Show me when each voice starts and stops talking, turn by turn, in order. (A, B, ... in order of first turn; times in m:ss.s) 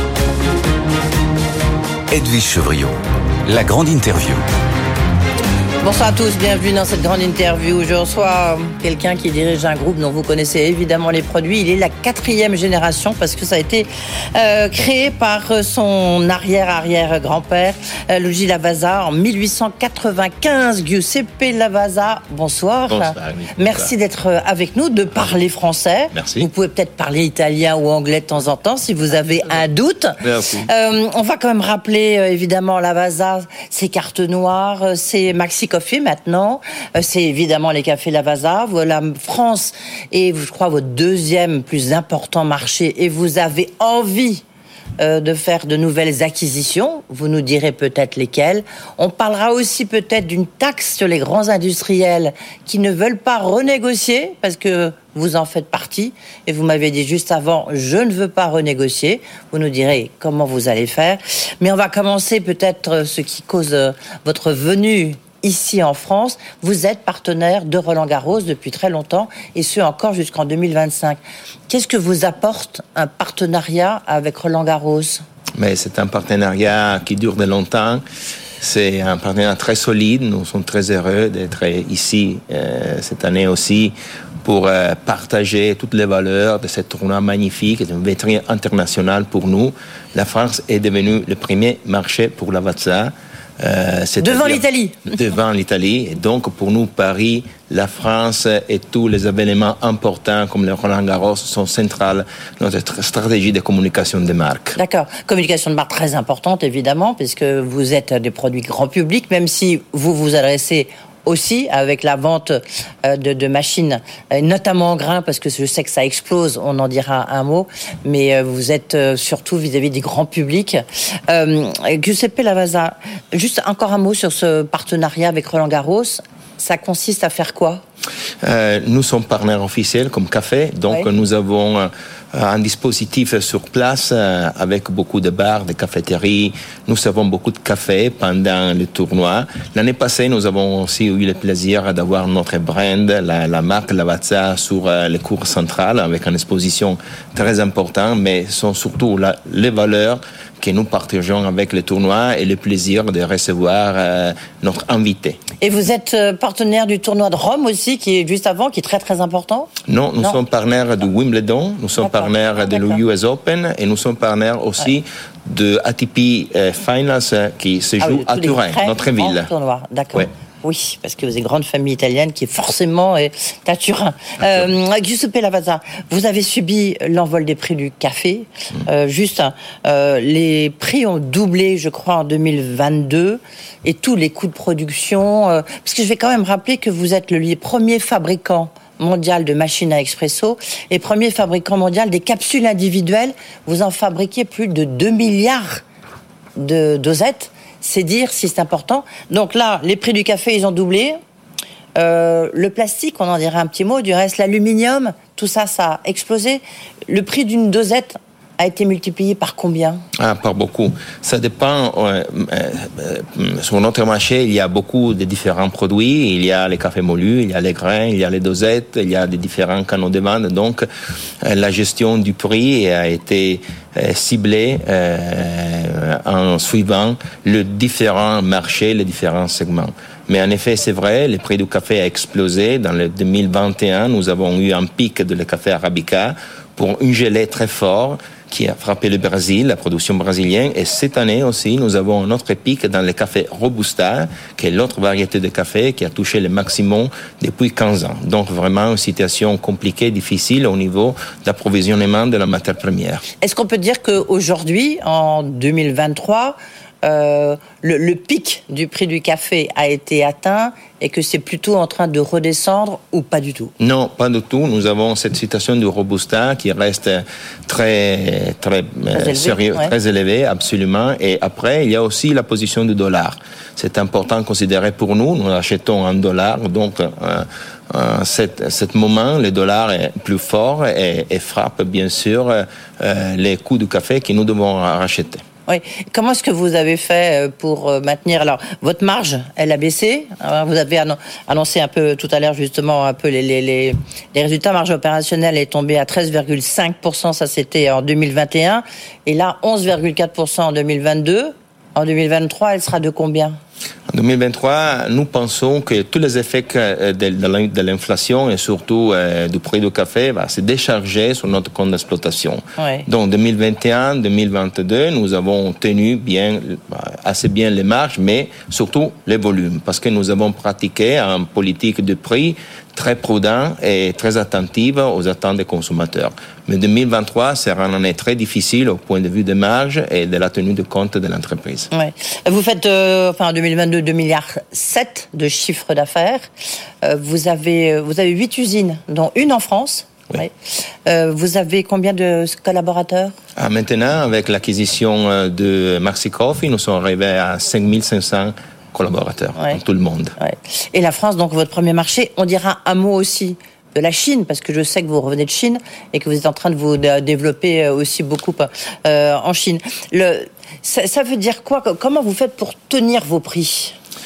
0:02.1-0:04.4 A
0:05.8-0:44.4 B
0:22.9-0:23.9 C
0:26.1-0:26.5 C
0:30.2-0:30.7 C
0:45.0-1:15.2 B
1:15.6-1:18.0 C
1:18.6-1:44.8 C
1:34.2-1:35.1 B
1:44.8-2:07.8 B
2:08.4-2:35.4 C
2:35.6-2:39.7 B
2:39.9-2:49.5 C
2:42.0-2:43.0 B
2:48.0-3:15.8 B
3:16.6-3:21.2 B
3:22.0-3:30.0 B
3:30.2-3:40.8 C
3:41.4-4:13.2 C
4:13.4-4:23.7 B
4:23.8-4:45.4 C
4:29.1-4:29.9 B
4:45.7-5:03.6 B
5:04.1-5:31.9 C
5:12.8-5:13.0 B
5:31.9-5:36.4 B
5:37.0-5:40.5 B
5:41.0-5:43.3 B
5:43.6-5:50.4 C
5:50.4-6:03.9 B